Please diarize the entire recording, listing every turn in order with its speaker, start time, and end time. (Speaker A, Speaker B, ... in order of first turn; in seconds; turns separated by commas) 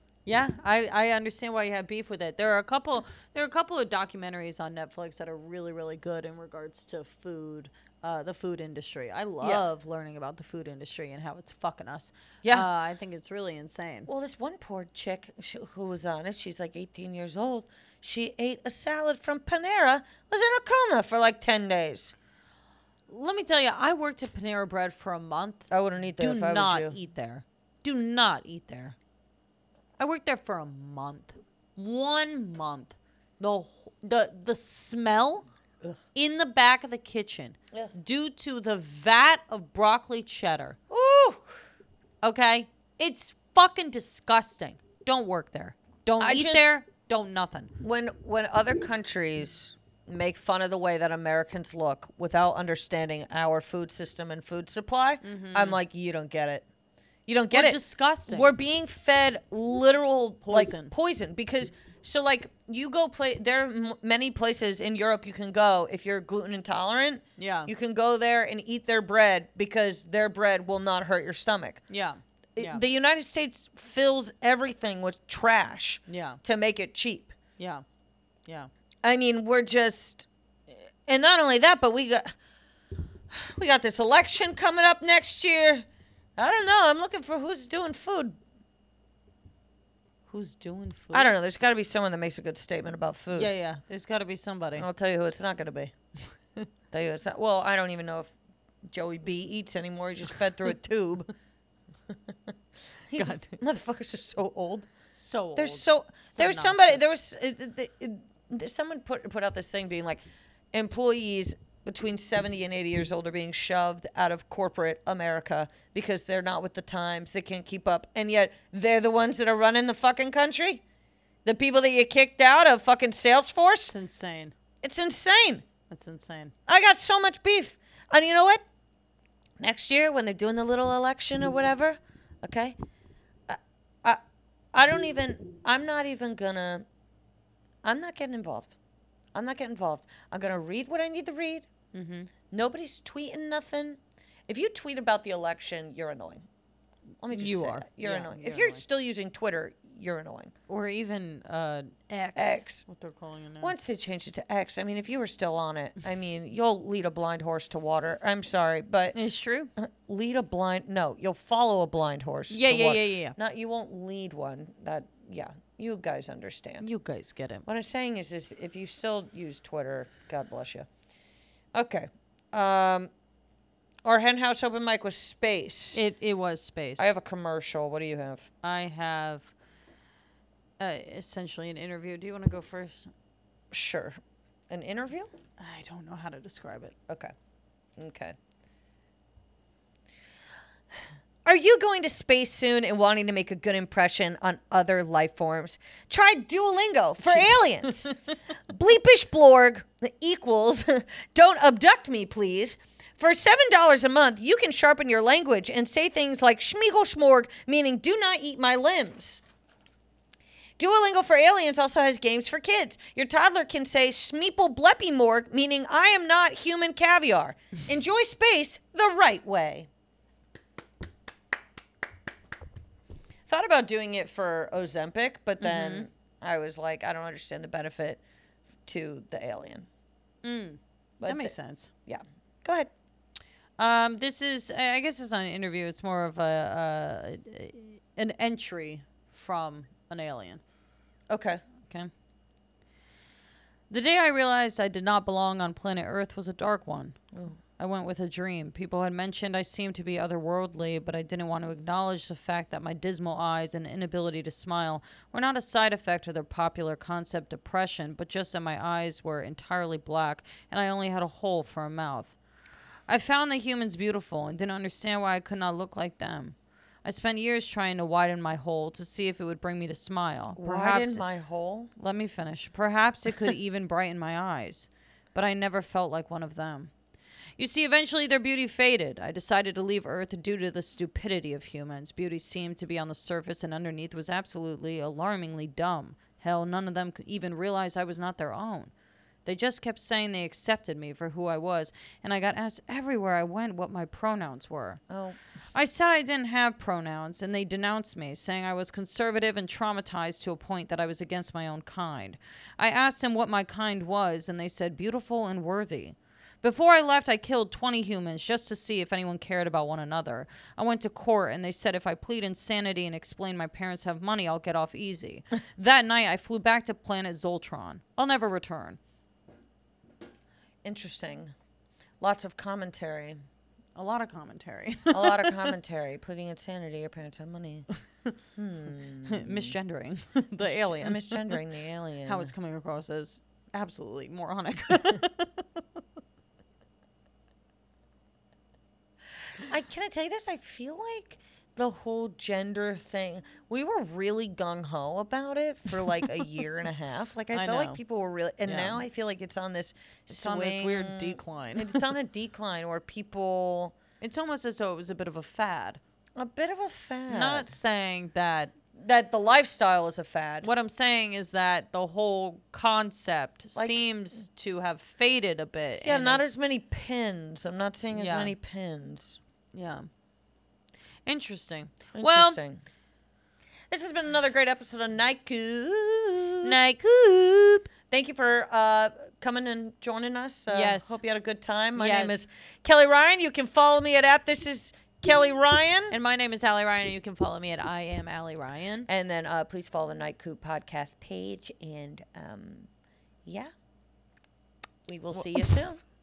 Speaker A: 0.2-14.1, Speaker B: 14.1-22.1, Speaker A: 23.1-29.0, Speaker B: 25.7-27.0, Speaker A: 30.0-35.5, Speaker A: 36.1-40.8, Speaker B: 40.9-41.6, Speaker A: 42.2-47.7, Speaker B: 46.2-46.7, Speaker B: 47.8-56.6, Speaker A: 55.2-55.8, Speaker B: 57.3-71.8, Speaker A: 57.5-58.5, Speaker A: 60.4-60.9, Speaker A: 67.4-67.7, Speaker A: 71.9-72.8, Speaker B: 72.6-77.3, Speaker A: 76.1-76.4, Speaker A: 77.6-77.8, Speaker B: 79.0-80.3, Speaker B: 81.1-82.3, Speaker B: 83.3-85.8, Speaker B: 86.4-88.4, Speaker A: 90.3-91.3, Speaker B: 91.1-93.5, Speaker A: 93.3-94.9, Speaker B: 94.8-95.9, Speaker B: 96.9-98.3, Speaker B: 98.9-101.3, Speaker B: 103.1-104.9, Speaker A: 103.1-103.5, Speaker A: 105.2-107.1, Speaker B: 105.6-120.8, Speaker B: 121.5-123.9, Speaker A: 123.9-124.5, Speaker B: 124.8-125.7, Speaker A: 125.9-126.5, Speaker B: 126.7-128.6, Speaker B: 129.6-132.8, Speaker B: 133.5-134.2, Speaker B: 134.7-136.9, Speaker B: 137.8-138.8, Speaker B: 139.3-141.7, Speaker A: 141.9-142.3, Speaker B: 142.5-146.5, Speaker B: 147.2-150.5, Speaker A: 147.3-148.8, Speaker A: 150.7-153.8, Speaker B: 152.4-152.8, Speaker B: 153.6-159.2, Speaker A: 159.1-159.7, Speaker B: 159.8-166.8, Speaker A: 162.5-163.4, Speaker A: 166.8-167.7, Speaker B: 167.7-170.9, Speaker B: 171.7-173.1, Speaker B: 174.1-176.0, Speaker A: 175.9-177.1, Speaker B: 177.0-178.5, Speaker A: 178.6-179.5, Speaker A: 180.8-183.1, Speaker B: 183.7-184.2, Speaker B: 184.7-185.3, Speaker A: 185.6-186.9, Speaker B: 188.0-188.4, Speaker B: 191.4-198.1, Speaker B: 198.7-209.4, Speaker B: 210.8-219.9, Speaker B: 223.5-228.2, Speaker A: 225.6-226.1, Speaker B: 228.9-229.9, Speaker A: 230.4-231.9, Speaker B: 231.2-231.5, Speaker B: 232.1-232.9, Speaker A: 233.8-240.6, Speaker B: 241.3-241.6, Speaker A: 243.9-247.2, Speaker A: 247.8-262.4, Speaker A: 263.1-271.2, Speaker B: 270.6-271.9, Speaker A: 272.0-276.9, Speaker A: 277.6-288.9, Speaker A: 289.4-295.0, Speaker B: 295.1-295.4, Speaker A: 295.7-319.0, Speaker B: 320.8-321.5, Speaker B: 322.2-323.4, Speaker A: 324.0-325.7, Speaker B: 325.1-327.9, Speaker B: 328.6-329.8, Speaker A: 329.3-331.6, Speaker B: 330.6-332.5, Speaker A: 332.3-335.8, Speaker B: 339.6-354.0, Speaker A: 347.5-348.0, Speaker A: 348.6-349.0, Speaker A: 350.3-352.0, Speaker A: 354.2-356.0, Speaker B: 356.4-357.7, Speaker A: 357.3-358.7, Speaker B: 359.0-360.7, Speaker A: 360.6-366.5, Speaker B: 366.0-369.4, Speaker A: 368.1-368.6, Speaker A: 369.7-370.1, Speaker A: 371.3-372.6, Speaker B: 372.2-372.8, Speaker B: 373.9-376.8, Speaker A: 376.6-377.9, Speaker B: 378.1-386.2, Speaker A: 380.7-381.2, Speaker A: 382.0-382.3, Speaker A: 386.1-389.1, Speaker B: 389.1-392.9, Speaker B: 393.5-393.7, Speaker B: 395.1-396.0, Speaker A: 395.3-395.8